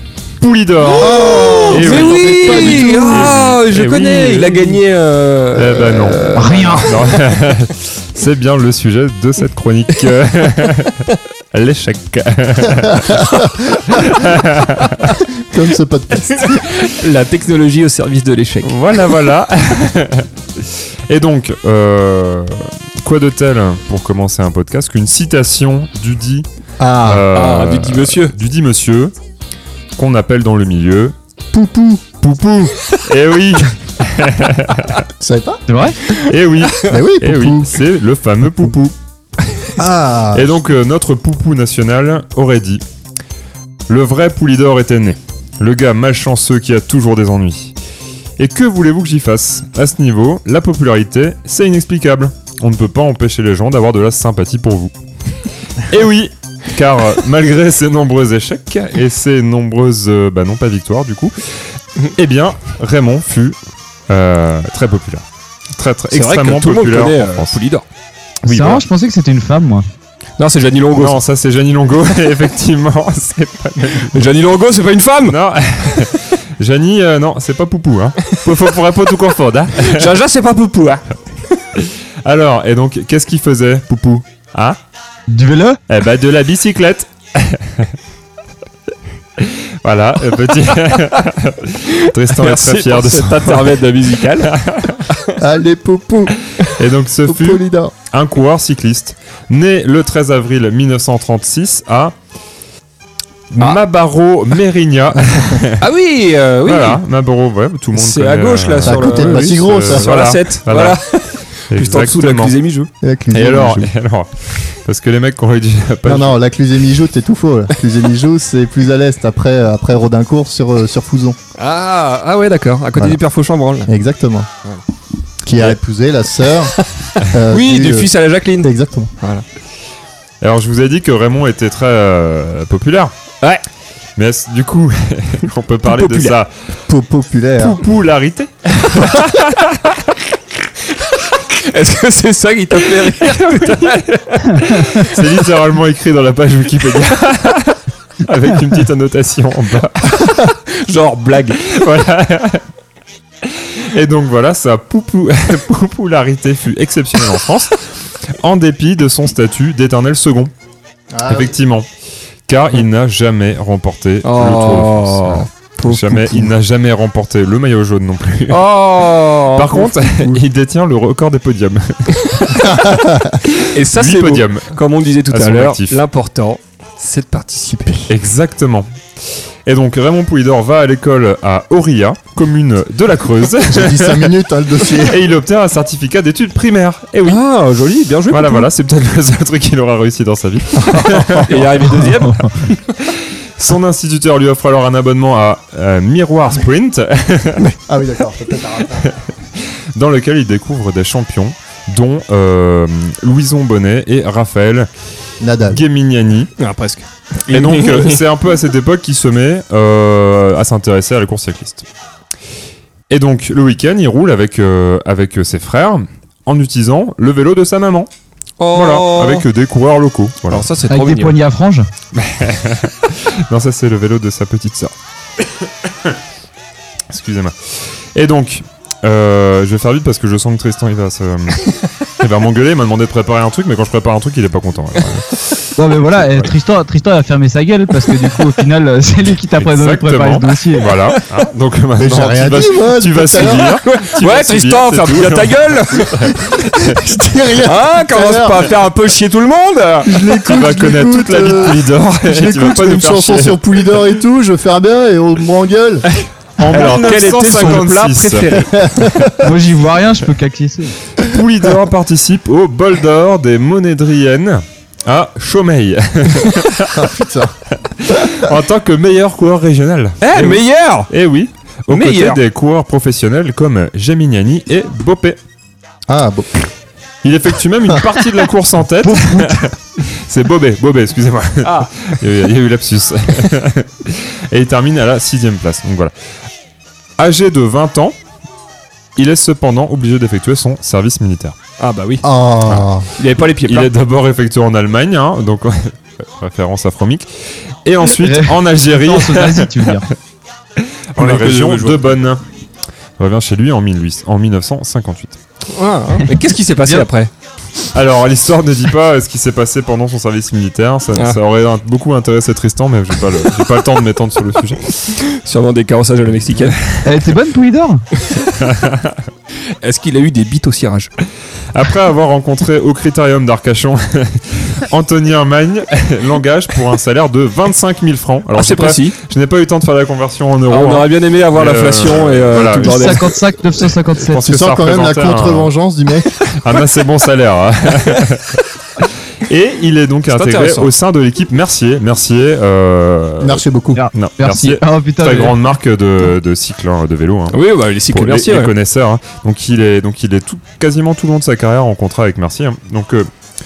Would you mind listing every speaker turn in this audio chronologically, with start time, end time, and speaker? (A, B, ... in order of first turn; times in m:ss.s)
0:00.4-0:04.8 A
0:00.9-0:03.4 B
0:01.0-0:07.2 C
0:05.5-0:15.2 A
0:06.3-0:06.9 D
0:13.1-0:13.4 B
0:15.4-0:16.7 B
0:16.5-0:18.7 C
0:18.6-0:26.4 A
0:26.8-0:27.3 B
0:27.0-0:29.1 A
0:27.3-0:28.3 C
0:30.0-0:31.2 A
0:31.5-0:32.0 B
0:32.2-0:35.1 A
0:35.2-0:35.6 B
0:35.7-0:36.0 D
0:36.2-0:38.9 A
0:36.8-0:37.7 B
0:39.8-0:40.5 B
0:40.3-0:42.8 A
0:43.9-0:47.7 A
0:48.4-0:54.9 A
0:55.8-1:01.4 A
1:02.1-1:07.6 A
1:06.1-1:07.8 C
1:08.4-1:09.8 D
1:08.4-1:08.8 A
1:10.4-1:11.2 C
1:11.0-1:14.2 A
1:14.1-1:15.4 C
1:15.3-1:20.1 A
1:19.8-1:21.0 C
1:21.8-1:24.8 A
1:25.3-1:25.8 D
1:25.9-1:27.9 A
1:29.4-1:33.8 A
1:32.2-1:34.5 C
1:34.3-1:35.0 A
1:35.1-1:35.3 C
1:35.4-1:36.4 B
1:36.6-1:42.1 A
1:37.2-1:37.9 B
1:43.5-1:45.8 A
1:45.8-1:47.0 C
1:46.6-1:51.0 A
1:47.9-1:52.9 C
1:48.8-1:50.1 B
1:51.7-1:52.5 A
1:53.0-1:53.9 B
1:53.3-1:56.4 A
1:56.0-2:01.4 B
2:01.6-2:03.9 C
2:03.8-2:04.5 B
2:05.4-2:09.1 B
2:06.6-2:06.9 C
2:07.5-2:09.4 C
2:10.4-2:13.1 A
2:14.2-2:16.5 A
2:15.8-2:16.4 C
2:16.9-2:17.8 B
2:17.6-2:19.6 A
2:21.3-2:25.5 C
2:23.0-2:30.4 A
2:30.2-2:31.7 C
2:31.6-2:32.6 A
2:33.4-2:40.5 A
2:41.1-2:41.5 B
2:41.3-2:41.9 A
2:42.5-2:48.6 A
2:44.2-2:46.5 C
2:48.5-2:50.4 C
2:49.5-2:52.9 A
2:52.6-2:53.4 B
2:53.5-2:54.8 A
2:53.5-2:58.0 C
2:55.3-2:56.0 A
2:57.7-2:58.1 B
2:58.1-2:58.9 A
2:59.6-3:04.3 A
3:03.7-3:05.2 B
3:04.9-3:07.4 A
3:07.2-3:08.7 C
3:08.3-3:12.1 A
3:10.8-3:11.5 B
3:11.4-3:12.8 C
3:13.0-3:17.7 A
3:17.6-3:19.1 B
3:18.9-3:24.9 A
3:25.4-3:25.8 B
3:25.7-3:26.5 A
3:26.6-3:28.2 C
3:27.5-3:31.8 A
3:33.1-3:38.1 A
3:38.6-3:39.4 C
3:38.7-3:40.6 A
3:40.5-3:41.4 C
3:40.9-3:41.9 D
3:42.1-3:44.9 A
3:47.1-3:55.7 A
3:55.8-4:01.0 D
3:56.2-3:56.5 A
3:59.6-4:07.1 A
4:02.0-4:03.8 B
4:03.4-4:06.7 C
4:06.8-4:08.7 B
4:07.6-4:10.3 C
4:10.0-4:16.0 B
4:10.4-4:13.6 A
4:16.6-4:19.3 A
4:16.6-4:18.9 C
4:18.7-4:19.3 B
4:19.4-4:21.0 D
4:21.2-4:27.1 A
4:26.9-4:27.6 B
4:27.7-4:35.4 A
4:30.2-4:31.1 C
4:31.9-4:32.4 C
4:36.1-4:36.7 B
4:37.2-4:46.1 A
4:39.0-4:39.6 D
4:41.6-4:41.9 C
4:47.2-4:48.2 A
4:49.2-4:51.6 A
4:51.8-4:52.3 C
4:52.2-4:53.1 B
4:53.2-4:53.9 C
4:53.6-5:00.1 A
4:58.2-5:00.1 D
5:00.8-5:02.4 A
5:01.2-5:02.1 C
5:03.2-5:05.4 A
5:05.7-5:07.3 C
5:07.9-5:15.0 A
5:11.1-5:11.4 C
5:15.1-5:16.8 C
5:16.7-5:17.0 A
5:17.0-5:18.0 D
5:18.4-5:19.2 A
5:19.8-5:21.1 C
5:21.7-5:33.3 A
5:28.5-5:29.2 C
5:30.7-5:33.4 C
5:32.8-5:34.5 D
5:34.2-5:35.7 A
5:34.4-5:36.4 B
5:36.5-5:47.6 A
5:40.3-5:40.9 C
5:43.4-5:44.0 B
5:43.9-5:45.6 D
5:47.5-5:48.7 C
5:48.1-5:53.3 A